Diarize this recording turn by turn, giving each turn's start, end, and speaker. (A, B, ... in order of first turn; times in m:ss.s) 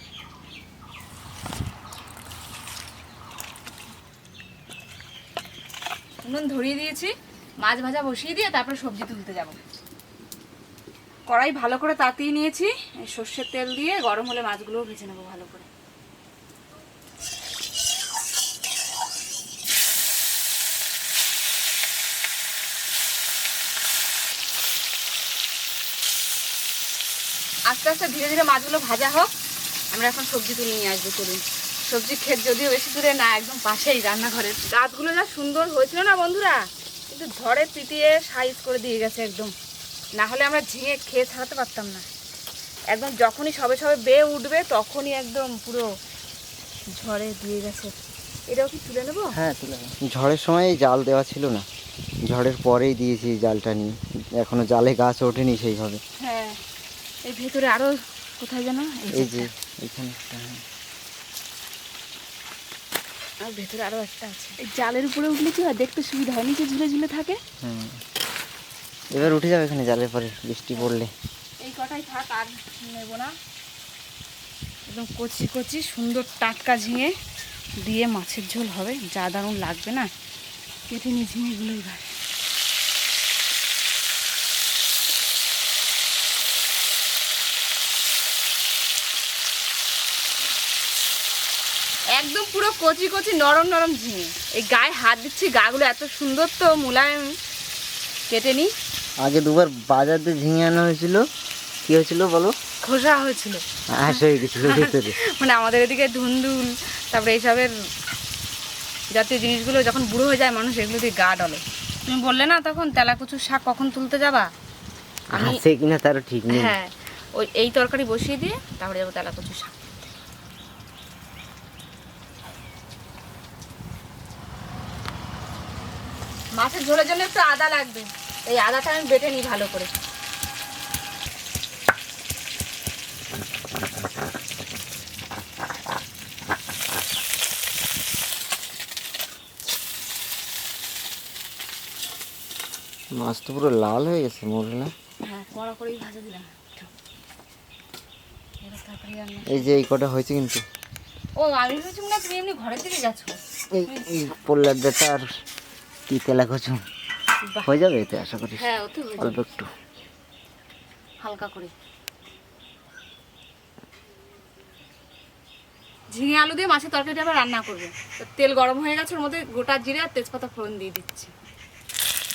0:06.2-0:09.6 A
0:11.3-0:15.7 A
0:27.7-0:29.3 A
0:29.9-0:39.5 A
0:40.2-0:42.1 A
0:42.9-0:45.9 A
0:46.9-0:47.9 A
0:48.5-0:49.4 A
0:49.3-0:51.6 B
0:52.2-0:56.0 B
0:56.2-0:56.6 A
0:57.2-0:59.5 A
0:59.1-1:00.6 B
1:03.4-1:07.4 A
1:07.6-1:08.0 B
1:09.1-1:11.1 B
1:11.6-1:13.3 A
1:14.9-1:17.1 A
1:17.8-1:20.1 A
1:20.9-1:22.2 A
1:32.1-1:37.4 A
1:38.3-1:38.7 A
1:39.2-1:41.2 B
1:41.8-1:42.5 B
1:42.8-1:47.7 A
1:43.9-1:45.2 B
1:49.1-1:54.5 A
1:55.3-1:55.6 A
1:55.3-1:56.8 B
1:56.5-2:00.1 A
2:06.5-2:09.9 A
2:23.1-2:24.9 B
2:25.2-2:26.9 A
2:28.6-2:29.8 A
2:29.5-2:30.6 B
2:31.3-2:34.2 A
2:33.7-2:35.4 B
2:36.1-2:36.8 B
2:37.6-2:39.7 B
2:38.6-2:39.4 A
2:41.2-2:41.7 A
2:46.1-2:51.3 A